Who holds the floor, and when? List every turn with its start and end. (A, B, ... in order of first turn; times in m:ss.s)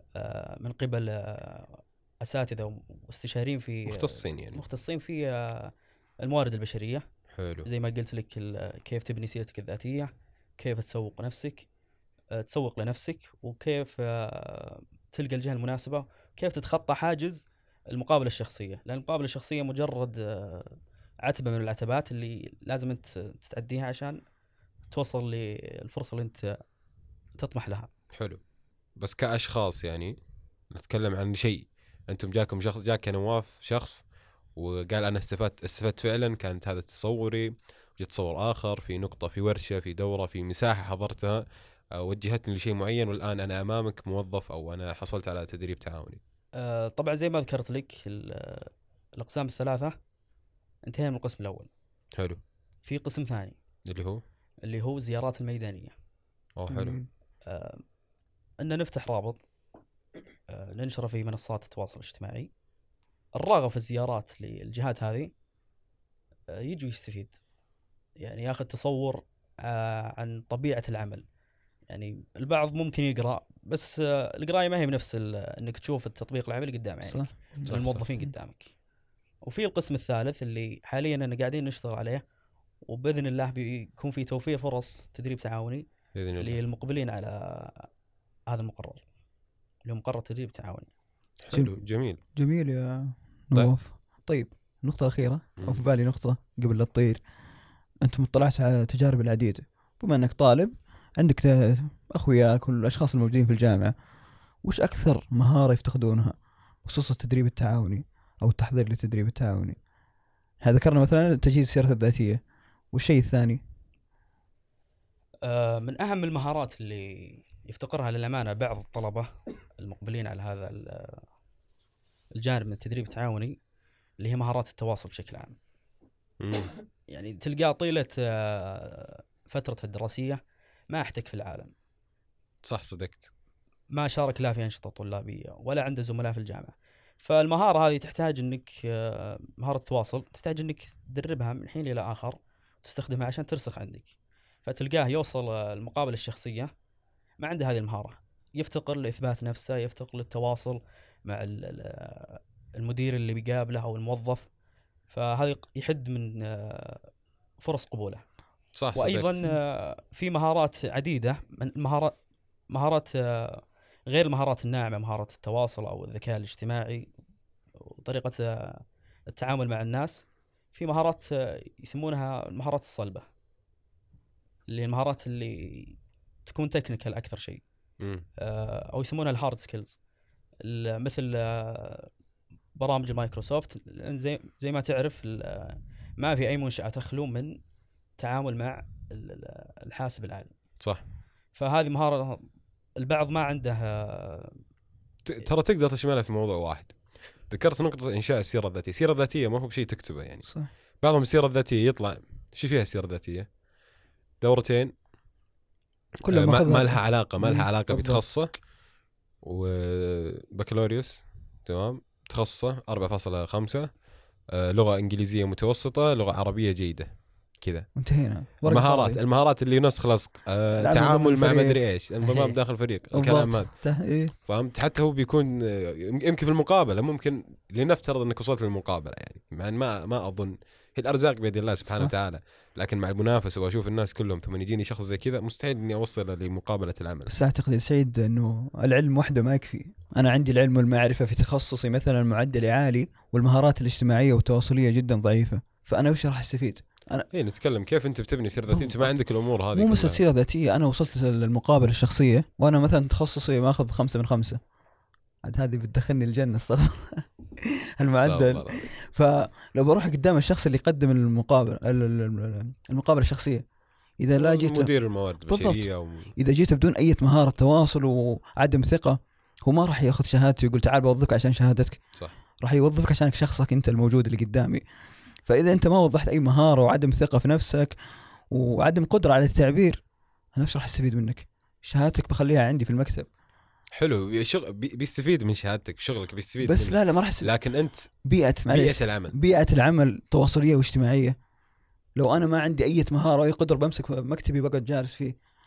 0:00.2-0:07.0 A
0:03.9-0:04.6 B
0:07.3-0:07.7 B
0:07.6-0:11.7 A
0:12.3-0:24.2 A
0:24.9-0:26.6 A
0:27.4-0:27.9 A
0:28.1-0:28.4 B
0:29.0-0:30.2 B
0:30.7-0:46.2 B
0:46.6-0:50.0 A
0:50.8-0:51.7 A
0:52.8-0:53.6 A
0:53.9-0:54.2 B
0:54.6-0:55.9 A
0:56.6-0:57.0 B
0:56.7-0:57.1 C
0:57.5-0:57.8 A
0:58.6-0:59.4 A
1:00.5-1:02.5 A
1:03.4-1:05.3 A
1:06.5-1:07.4 A
1:08.2-1:11.2 A
1:11.9-1:18.8 A
1:17.0-1:17.6 C
1:17.6-1:18.0 B
1:19.4-1:22.2 A
1:22.9-1:25.9 A
1:26.1-1:26.6 B
1:26.4-1:27.9 A
1:28.5-1:29.0 A
1:29.8-1:30.9 A
1:31.4-1:32.2 B
1:32.3-1:37.2 C
1:35.6-1:35.8 B
1:38.0-1:43.9 C
1:44.6-1:49.8 C
1:50.6-1:53.6 C
1:55.4-2:01.2 A
2:02.4-2:03.6 A
2:04.2-2:05.6 A
2:06.4-2:06.7 B
2:07.1-2:11.7 A
2:12.6-2:13.3 B
2:13.9-2:26.7 A
2:27.4-2:34.5 A
2:35.1-2:37.1 A
2:37.6-2:38.2 A
2:38.8-2:39.4 B
2:38.9-2:42.1 A
2:42.7-2:47.1 A
2:47.8-2:53.2 A
2:54.7-2:57.6 A
2:58.0-2:58.3 B
2:58.4-3:00.0 A
3:00.6-3:02.1 A
3:02.8-3:07.6 A
3:08.2-3:10.5 A
3:11.5-3:12.4 A
3:13.0-3:14.6 A
3:15.2-3:20.5 B
3:21.0-3:23.5 B
3:24.4-3:24.9 B
3:26.2-3:28.2 C
3:26.3-3:28.6 B
3:29.4-3:34.0 B
3:34.5-3:38.0 B
3:38.0-3:39.2 C
3:38.6-3:57.3 B
3:40.8-3:42.5 C
3:43.1-3:44.3 C
3:51.9-3:52.1 C
3:57.3-4:07.3 C
4:07.3-4:10.2 B
4:08.7-4:09.2 C
4:09.7-4:14.6 C
4:15.4-4:23.6 C
4:18.1-4:18.9 B
4:24.2-4:24.9 C
4:24.4-4:26.3 B
4:25.5-4:32.0 C
4:32.6-4:34.8 C
4:35.4-4:38.0 C
4:38.5-4:40.0 C
4:40.5-4:43.3 C
4:44.0-4:48.1 B
4:46.6-4:47.5 C
4:48.2-4:51.4 C
4:48.7-4:49.4 B
4:52.2-4:55.4 C